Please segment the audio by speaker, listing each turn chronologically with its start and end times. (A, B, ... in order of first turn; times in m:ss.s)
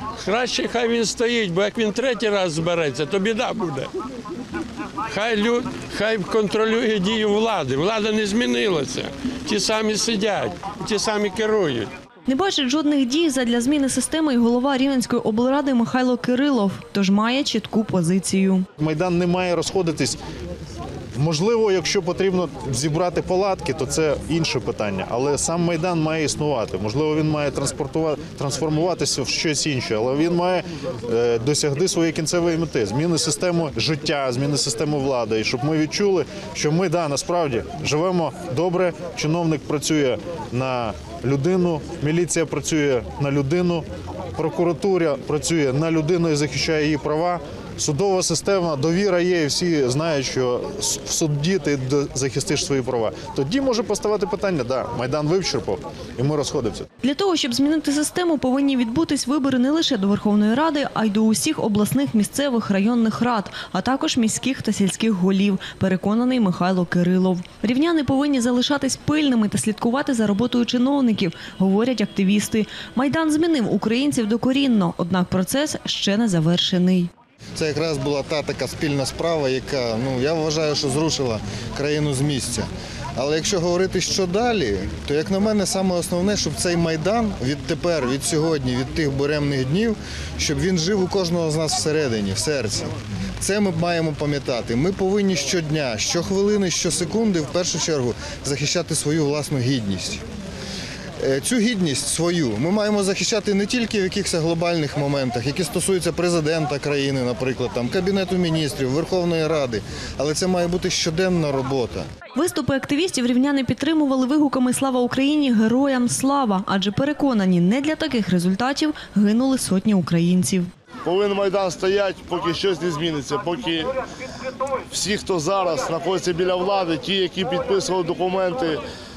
0:00.2-0:03.9 A
0:05.1-0:11.9 A
0:12.3-0:18.6 B
0:18.8-0:20.2 C
0:21.2-0:56.9 C
0:57.0-1:17.1 B
1:17.6-1:40.2 D
1:41.2-1:52.0 D
1:52.4-2:00.7 B
2:01.0-2:03.9 E
2:04.9-2:08.8 E